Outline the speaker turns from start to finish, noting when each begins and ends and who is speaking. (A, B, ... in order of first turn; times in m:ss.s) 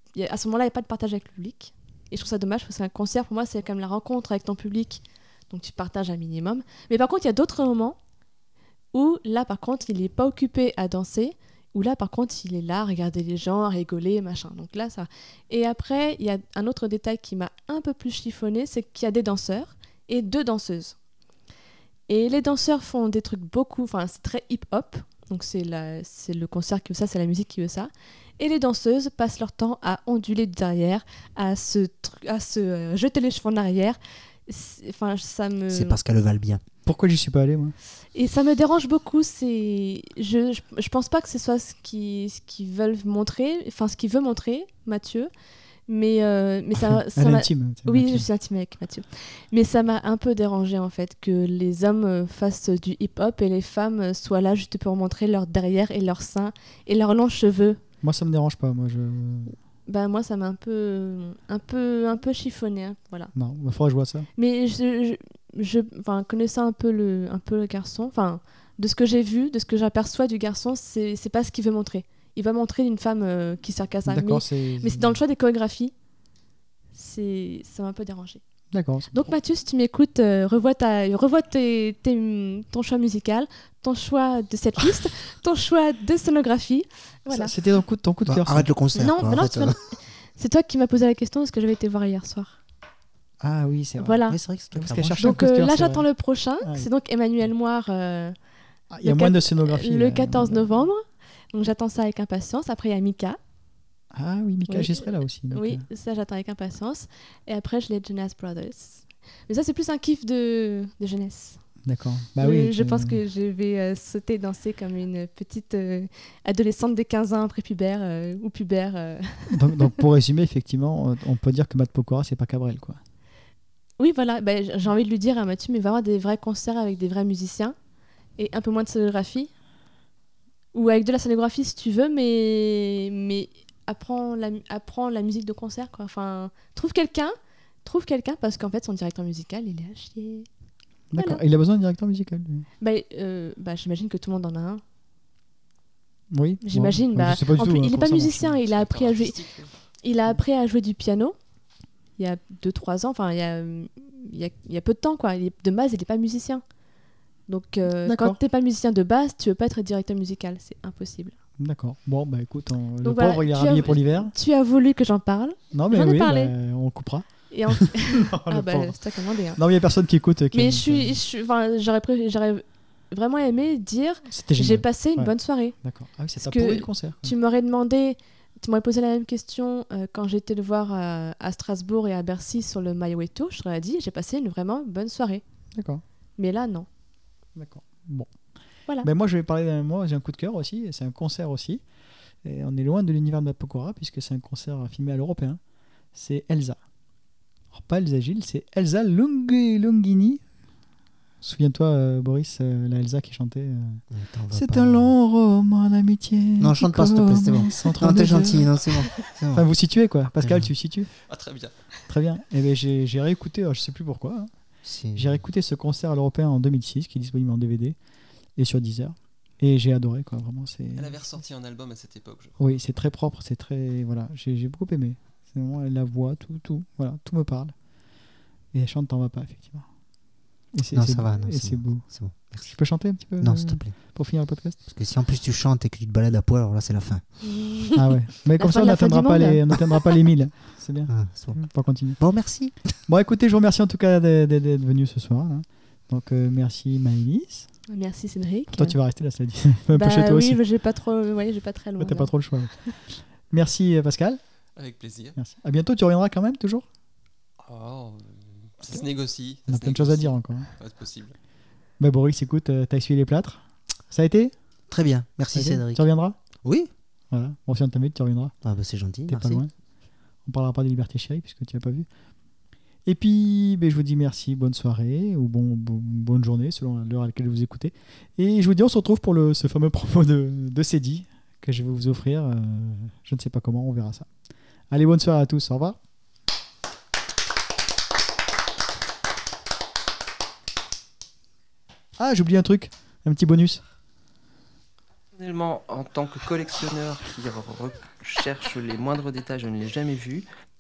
0:00.2-0:08.0 A
0:08.9-0:21.0 A
0:22.1-0:36.0 A
0:35.7-0:36.6 B
0:36.8-0:37.8 C
0:38.2-0:45.3 A
0:45.9-0:57.8 A
0:46.8-0:48.3 C
0:58.0-0:59.6 C
0:59.9-1:03.3 A
1:03.3-1:04.3 C
1:04.4-1:15.9 A
1:14.1-1:15.2 C
1:16.9-1:18.4 A
1:18.7-1:19.2 C
1:19.1-1:27.5 A
1:27.3-1:28.7 C
1:28.2-1:29.8 B
1:29.0-1:29.8 A
1:30.4-1:32.6 A
1:33.4-1:34.2 C
1:34.0-1:34.4 A
1:34.3-1:35.4 B
1:34.8-1:36.1 C
1:35.2-1:38.4 A
1:36.6-1:36.9 C
1:38.9-1:40.7 C
1:39.0-1:43.4 A
1:44.1-1:45.8 C
1:44.7-1:51.6 A
1:51.8-1:53.2 C
1:52.4-1:59.9 A
1:59.5-2:03.0 C
2:04.0-2:07.8 A
2:08.4-2:09.5 A
2:10.7-2:20.5 A
2:21.1-2:22.7 C
2:22.8-2:24.8 A
2:26.3-2:28.6 C
2:26.6-2:29.4 A
2:28.6-2:29.7 D
2:30.0-2:31.4 A
2:32.2-2:36.6 A
2:37.5-2:41.3 A
2:38.0-2:38.4 C
2:41.6-2:44.3 C
2:43.0-2:46.5 A
2:45.7-2:47.3 C
2:47.5-2:49.6 A
2:47.8-2:49.0 C
2:49.6-2:51.2 C
2:50.5-2:55.8 A
2:54.3-2:57.4 C
2:56.4-3:05.4 A
3:05.8-3:06.0 C
3:06.4-3:06.9 A
3:07.6-3:08.3 C
3:09.0-3:11.8 C
3:12.4-3:15.6 C
3:16.1-3:16.8 C
3:17.7-3:20.4 C
3:21.4-3:28.7 C
3:24.1-3:25.1 B
3:26.6-3:29.7 B
3:29.5-3:31.1 C
3:30.4-3:30.7 B
3:31.3-3:31.7 D
3:32.1-3:34.5 C
3:34.8-3:35.4 B
3:35.2-3:38.0 C
3:38.6-3:41.2 C
3:41.0-3:42.7 D
3:42.6-3:47.7 C
3:48.7-3:49.9 C
3:50.7-3:52.0 C
3:50.9-3:52.7 B
3:52.6-3:54.8 C
3:53.4-3:54.0 B
3:54.9-3:57.2 B
3:57.5-3:58.0 A
3:58.0-4:02.2 C
3:58.6-4:00.1 A
4:01.1-4:01.6 B
4:02.2-4:02.8 B
4:03.1-4:07.7 C
4:07.9-4:09.0 A
4:08.7-4:10.6 C
4:09.9-4:12.3 A
4:12.0-4:12.7 C
4:13.5-4:14.4 C
4:14.8-4:15.4 D
4:15.4-4:16.8 C
4:17.6-4:21.4 D
4:19.7-4:20.7 C
4:22.0-4:24.5 C
4:24.9-4:26.1 B
4:25.5-4:26.4 C
4:26.6-4:26.9 B
4:27.3-4:28.5 C
4:28.6-4:29.6 B
4:29.3-4:29.7 C
4:30.4-4:32.1 C
4:33.1-4:44.3 C
4:44.9-4:46.0 C
4:52.2-4:53.8 C
4:55.4-5:00.5 E